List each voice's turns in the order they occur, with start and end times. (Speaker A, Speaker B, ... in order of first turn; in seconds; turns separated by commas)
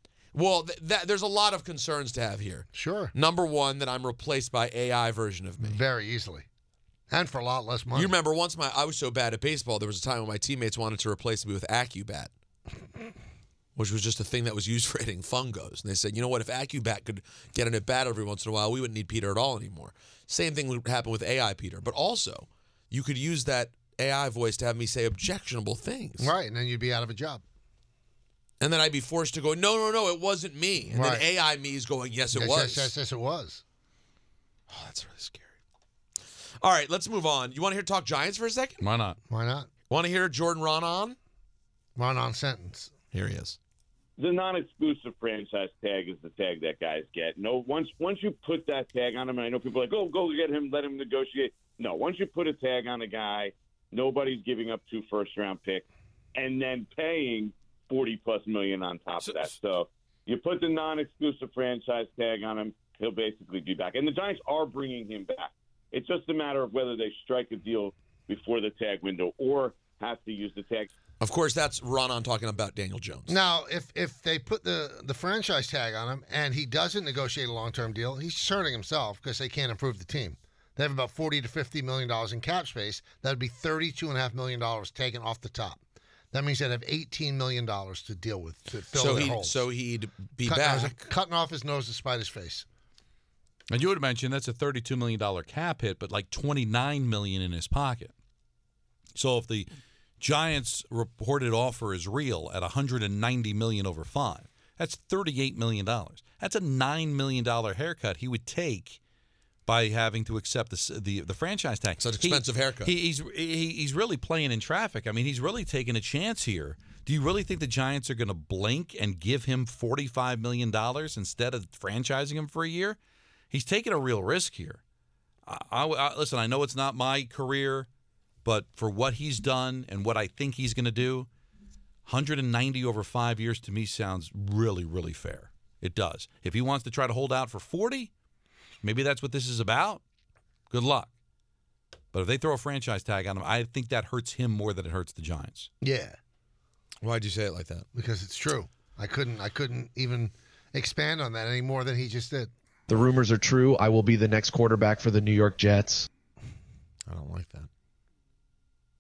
Speaker A: 0.3-5.8, Speaker B: 2.7-3.1, Speaker B: 5.6-6.5, Speaker B: 7.1-8.1, Speaker A: 7.9-12.3, Speaker A: 13.8-26.3, Speaker B: 26.2-27.4, Speaker A: 28.6-32.9, Speaker B: 30.9-31.3, Speaker B: 32.3-33.6, Speaker A: 34.7-35.5, Speaker A: 36.6-38.8, Speaker C: 38.8-39.2, Speaker B: 39.3-39.7, Speaker A: 39.9-41.2, Speaker B: 42.0-42.9, Speaker A: 43.1-43.6, Speaker D: 44.2-70.9, Speaker A: 59.2-59.5, Speaker A: 71.2-73.4, Speaker B: 73.3-85.8, Speaker B: 86.3-89.6, Speaker A: 88.9-91.1, Speaker B: 90.5-92.7, Speaker C: 93.7-98.1, Speaker C: 99.2-109.0, Speaker C: 109.7-123.0, Speaker A: 112.0-112.9, Speaker C: 123.5-124.8, Speaker C: 125.5-127.9, Speaker C: 128.4-131.3, Speaker C: 132.1-138.1, Speaker C: 138.8-140.0, Speaker C: 140.7-141.1, Speaker C: 142.1-145.7, Speaker B: 145.8-146.2, Speaker A: 147.0-147.9, Speaker B: 147.9-152.5, Speaker E: 152.9-156.1, Speaker A: 157.1-157.7